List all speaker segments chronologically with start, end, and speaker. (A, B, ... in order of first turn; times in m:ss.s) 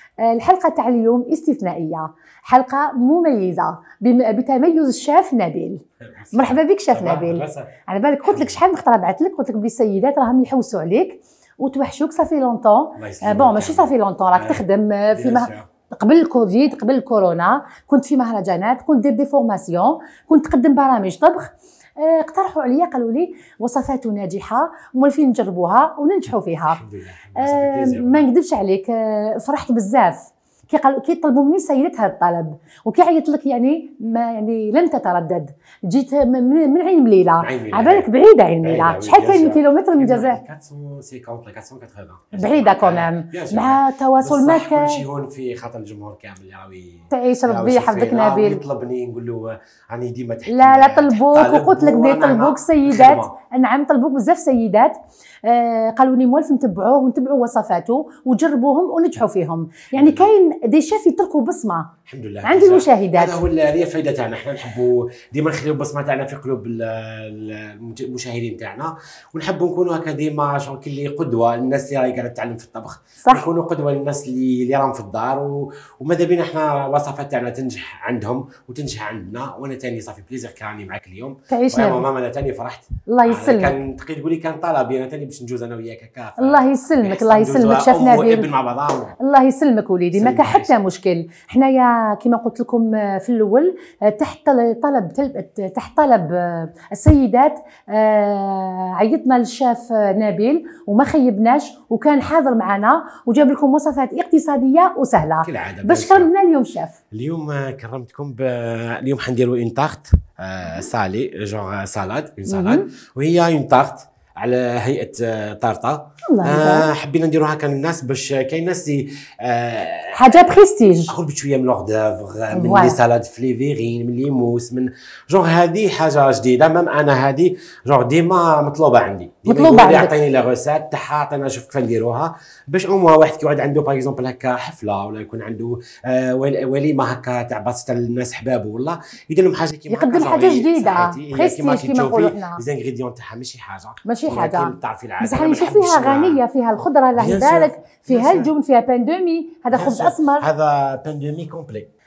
0:00.2-0:05.8 A
0:06.0-0:07.7 B
0:06.3-0:26.8 A
0:08.2-0:08.6 B
0:13.0-0:15.7 B
0:26.7-0:28.2 B
0:27.4-0:40.4 A
0:37.4-0:38.1 B
0:38.6-0:53.3 B
0:42.3-0:45.0 A
0:47.1-0:48.6 A
0:50.5-1:01.9 A
0:59.9-1:00.2 B
1:02.1-1:29.2 B
1:02.4-1:03.4 A
1:21.5-1:22.0 A
1:23.1-1:23.8 A
1:26.4-1:28.5 A
1:29.2-1:47.0 A
1:30.1-1:30.7 B
1:45.4-1:46.3 B
1:47.1-2:00.4 B
1:52.5-1:52.9 A
1:56.3-1:56.9 A
2:00.1-2:01.1 A
2:01.1-2:26.4 B
2:02.5-2:03.0 A
2:09.4-2:10.1 A
2:19.9-2:22.6 A
2:24.1-2:30.5 A
2:27.2-2:28.5 B
2:29.7-2:31.9 B